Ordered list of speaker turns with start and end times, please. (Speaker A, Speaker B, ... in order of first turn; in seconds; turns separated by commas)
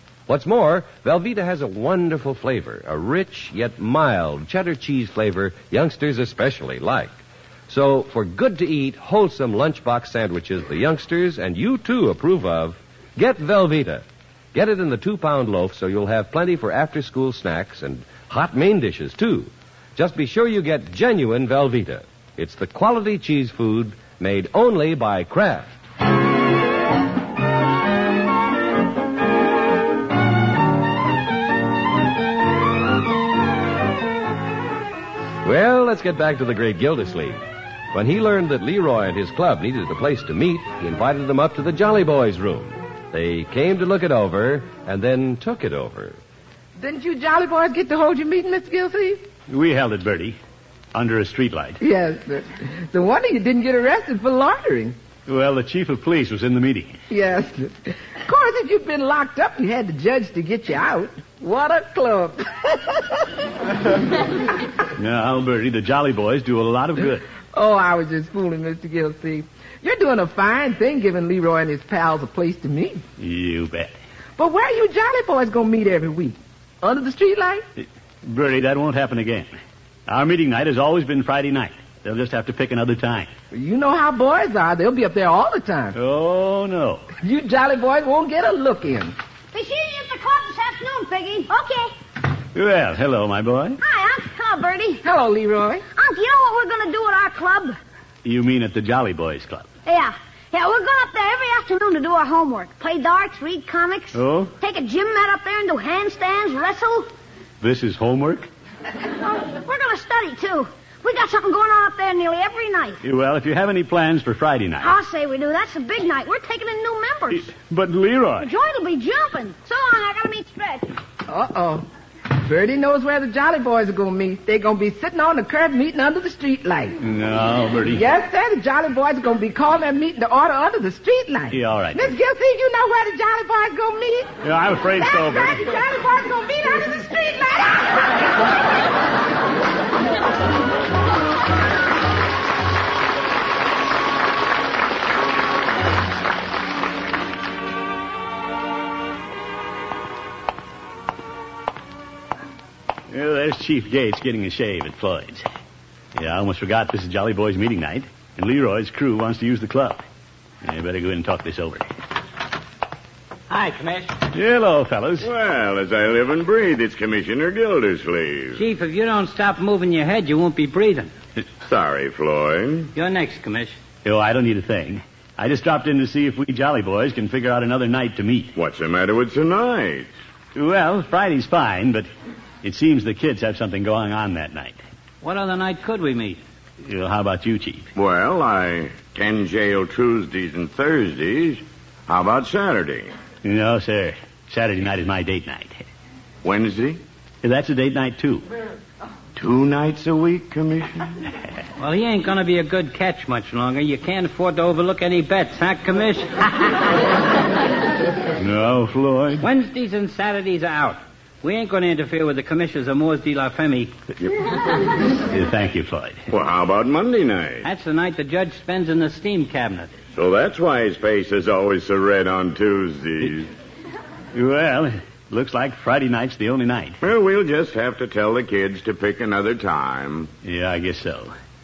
Speaker A: 0.3-7.2, Speaker A: 7.7-25.8, Speaker A: 35.4-37.4, Speaker A: 37.9-46.2, Speaker B: 46.8-49.2, Speaker C: 49.5-50.4, Speaker C: 50.9-51.8, Speaker B: 51.8-55.0, Speaker C: 55.3-57.0, Speaker B: 57.1-63.2, Speaker C: 65.0-67.3, Speaker B: 67.5-73.0, Speaker C: 73.2-73.9, Speaker B: 74.4-77.6, Speaker C: 77.8-79.5, Speaker C: 80.1-83.3, Speaker B: 83.5-86.0, Speaker C: 85.9-87.1, Speaker B: 87.2-89.1, Speaker D: 89.5-91.9, Speaker C: 92.5-93.8, Speaker D: 93.8-95.0, Speaker B: 95.0-95.8, Speaker D: 95.9-97.8, Speaker C: 98.2-99.7, Speaker D: 99.9-107.1, Speaker C: 104.1-104.5, Speaker C: 107.6-108.5, Speaker D: 109.2-113.0, Speaker C: 113.0-114.9, Speaker D: 114.8-117.5, Speaker C: 117.3-118.5, Speaker D: 118.4-120.9, Speaker B: 121.3-127.0, Speaker C: 127.0-128.0, Speaker B: 127.9-134.4, Speaker C: 131.5-132.1, Speaker C: 134.4-135.6, Speaker B: 135.0-138.1, Speaker C: 153.1-155.4, Speaker C: 156.1-160.0, Speaker C: 160.6-161.9, Speaker E: 163.5-164.2, Speaker C: 164.3-165.3, Speaker F: 165.2-168.6, Speaker E: 168.6-171.1, Speaker F: 171.7-172.9, Speaker E: 172.9-173.8, Speaker C: 174.1-178.5, Speaker F: 178.6-180.1, Speaker C: 180.6-182.1, Speaker C: 182.6-184.8, Speaker E: 185.2-186.4, Speaker C: 186.8-187.9, Speaker F: 187.9-193.1, Speaker C: 193.4-195.9, Speaker F: 196.4-197.0, Speaker C: 197.4-198.4, Speaker F: 199.4-201.2, Speaker E: 201.8-206.7, Speaker C: 208.4-209.4, Speaker E: 209.4-213.9, Speaker C: 215.3-216.2, Speaker F: 216.3-217.7, Speaker E: 217.6-219.9, Speaker F: 220.1-223.5, Speaker C: 224.3-227.0, Speaker F: 227.0-230.3, Speaker C: 230.4-231.3